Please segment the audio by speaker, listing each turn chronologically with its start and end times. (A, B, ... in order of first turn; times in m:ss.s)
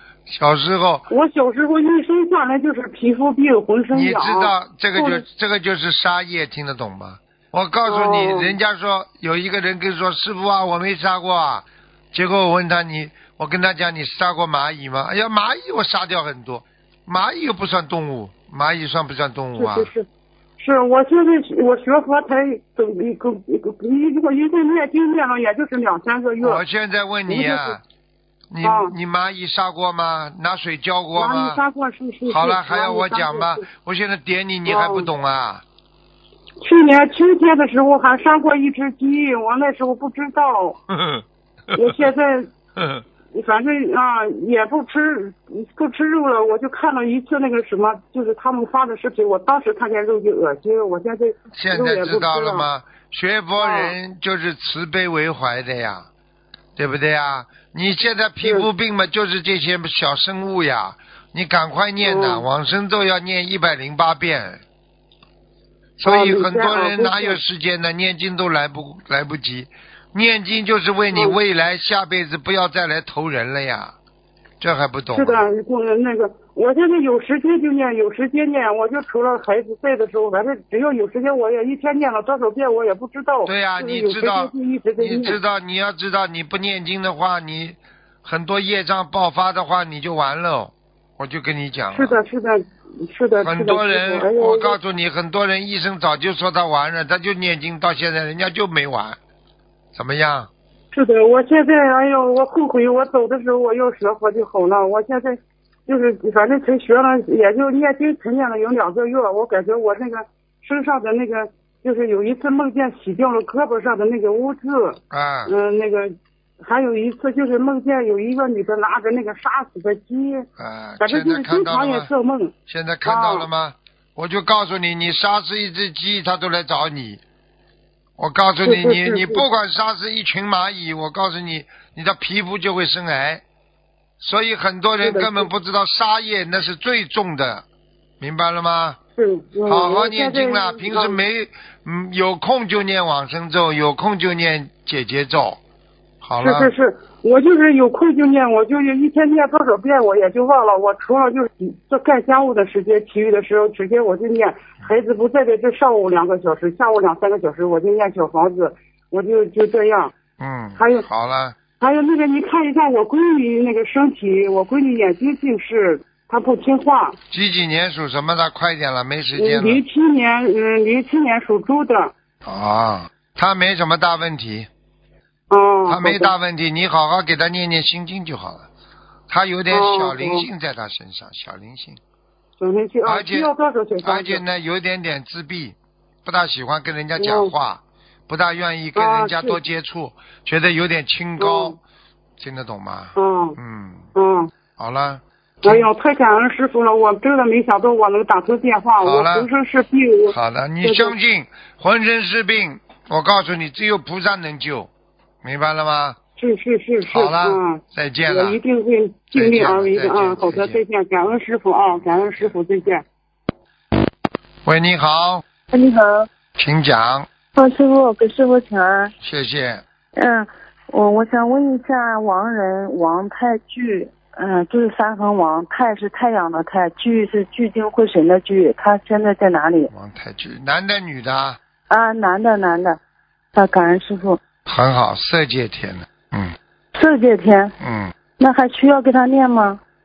0:00.3-0:01.1 A
0:01.1-0:05.2 B
0:03.9-0:19.9 A
0:07.9-0:08.6 B
0:19.6-0:20.1 B
0:20.6-0:26.6 B
0:26.4-0:27.8 A
0:27.3-0:27.8 B
0:28.5-0:31.6 A
0:28.6-0:28.9 B
0:31.2-0:33.6 B
0:32.3-0:35.6 A
0:34.7-0:35.1 B
0:36.6-0:40.8 B
0:40.9-0:41.2 A
0:41.7-0:42.5 B
0:42.8-0:43.0 A
0:43.3-0:52.7 B
0:51.5-0:56.1 A
0:53.6-0:54.0 B
0:56.8-1:04.6 A
1:02.0-1:02.5 B
1:06.0-1:14.0 A
1:06.0-1:07.4 B
1:11.1-1:11.4 B
1:14.6-1:15.4 A
1:15.1-1:25.4 B
1:23.4-1:32.2 A
1:31.9-1:34.8 B
1:33.4-1:39.2 A
1:40.0-1:40.5 A
1:40.9-2:00.5 B
1:55.1-1:55.5 A
2:00.6-2:02.1 A
2:01.0-2:02.5 B
2:02.7-2:07.2 A
2:03.0-2:03.5 B
2:08.2-2:13.4 A
2:08.6-2:09.5 B
2:14.2-2:17.6 A
2:15.0-2:15.5 B
2:18.2-2:19.0 A
2:19.2-2:21.2 B
2:19.7-2:25.6 A
2:26.2-2:26.7 A
2:26.4-2:40.1 B
2:40.4-2:41.6 A
2:40.8-2:41.0 B
2:41.8-2:47.2 B
2:47.3-2:49.8 A
2:49.4-2:52.1 B
2:52.4-2:54.7 A
2:55.5-2:56.3 B
2:55.9-2:58.7 A
2:59.3-3:02.0 A
2:59.7-3:00.5 B
3:02.6-3:04.4 B
3:03.0-3:03.5 A
3:04.0-3:11.8 A
3:07.2-3:07.5 B
3:09.0-3:09.6 B
3:11.4-3:11.8 B
3:12.4-3:14.1 A
3:13.2-3:13.6 B
3:14.2-3:14.5 B
3:14.8-3:15.9 A
3:15.6-3:21.2 B
3:19.0-3:19.5 A
3:20.3-3:24.9 A
3:25.4-3:26.2 A
3:26.4-3:33.0 B
3:27.1-3:28.6 A
3:29.3-3:30.8 A
3:31.9-3:32.6 A
3:34.6-3:35.4 A
3:35.7-3:36.3 C
3:36.6-3:37.3 A
3:37.6-3:39.1 C
3:39.2-3:39.8 A
3:40.2-3:49.9 C
3:49.9-3:51.6 A
3:51.9-3:53.0 C
3:53.5-3:54.4 C
3:54.7-3:56.6 A
3:56.9-3:57.8 C
3:57.8-3:58.1 A
3:58.4-3:59.8 C